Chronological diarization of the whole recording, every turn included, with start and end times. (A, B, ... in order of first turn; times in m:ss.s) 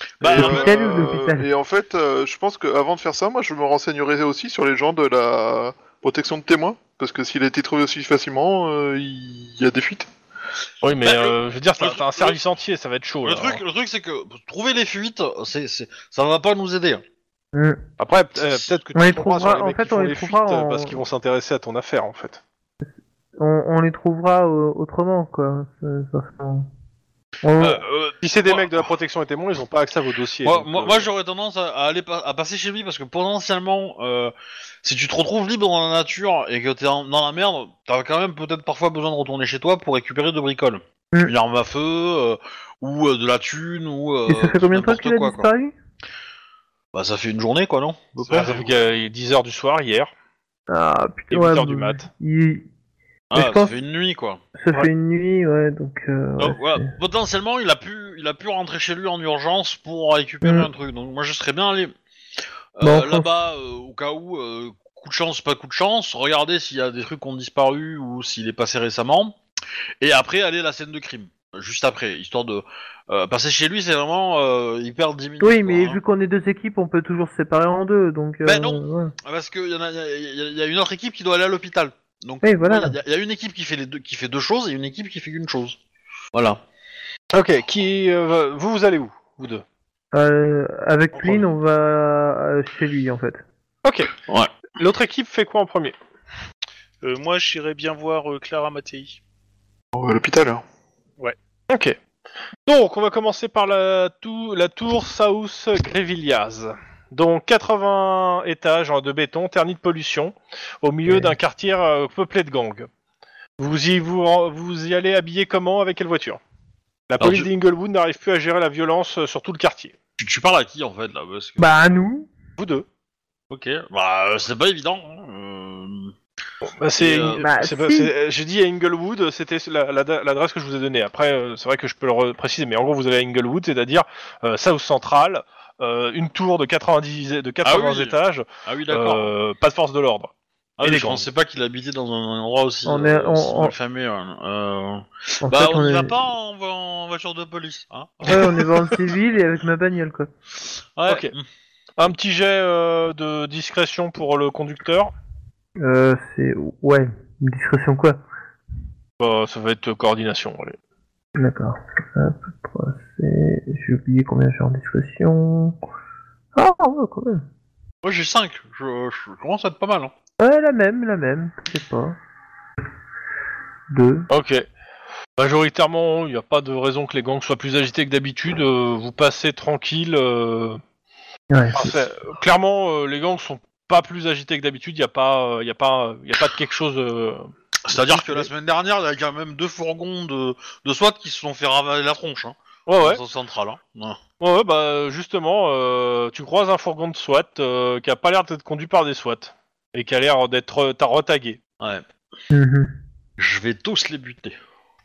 0:00.2-0:00.5 A
0:00.2-0:00.6 B
0:00.3-0:10.1 C
0:00.3-0:01.5 D
0:10.8-0:13.6 A
0:11.0-0:12.4 B
0:13.2-0:17.0 B
0:17.5-0:17.8 D
0:18.0-0:22.4 A
0:18.9-0:21.0 D
0:23.4-0:26.7 D
0:27.4-0:27.8 D
0:27.6-0:28.9 B
0:28.2-0:31.1 A
0:30.4-0:45.5 B
0:44.3-0:45.7 D
0:46.9-0:48.6 B
0:48.3-0:48.6 E
0:48.3-0:50.1 A
0:50.7-0:52.7 D
0:51.3-0:52.1 A
0:53.3-0:54.4 B
0:53.3-0:53.7 D
0:54.6-0:56.9 D
0:56.4-1:01.9 B
1:00.4-1:00.7 D
1:02.8-1:09.4 B
1:02.8-1:03.2 D
1:10.0-1:16.0 B
1:15.4-1:19.1 D
1:18.4-1:25.8 B
1:22.4-1:23.0 D
1:26.3-1:26.6 B
1:27.3-1:29.6 A
1:30.1-1:33.4 D
1:31.2-1:31.5 A
1:33.8-1:34.1 A
1:34.8-1:36.0 A
1:37.0-1:39.2 E
1:39.9-1:40.6 C
1:41.7-1:42.0 A
1:42.6-1:52.9 A
1:53.6-1:56.4 A
1:57.1-1:59.9 A
1:57.2-1:57.5 B
2:00.2-2:01.7 B
2:01.6-2:02.3 D
2:02.6-2:02.8 A
2:03.5-2:06.1 B
2:06.6-2:21.2 A
2:07.0-2:07.4 B
2:07.4-2:08.1 D
2:17.6-2:19.3 B
2:20.8-2:28.6 B
2:22.8-2:23.7 D
2:25.4-2:26.1 D
2:28.3-2:30.3 D
2:28.3-2:28.5 A
2:31.0-2:31.4 B
2:31.1-2:31.3 A
2:32.0-2:35.1 A
2:35.8-2:38.2 D
2:39.2-2:40.8 A
2:41.4-2:45.8 D
2:46.5-2:47.4 D
2:48.0-2:50.1 B
2:50.4-2:52.2 D
2:53.9-2:54.3 D
2:54.3-2:54.6 A
2:55.4-3:00.8 A
3:01.5-3:01.9 D
3:01.7-3:08.5 A
3:07.9-3:14.2 B
3:12.9-3:13.2 A
3:14.4-3:21.6 A
3:22.5-3:22.9 D
3:23.4-3:24.6 B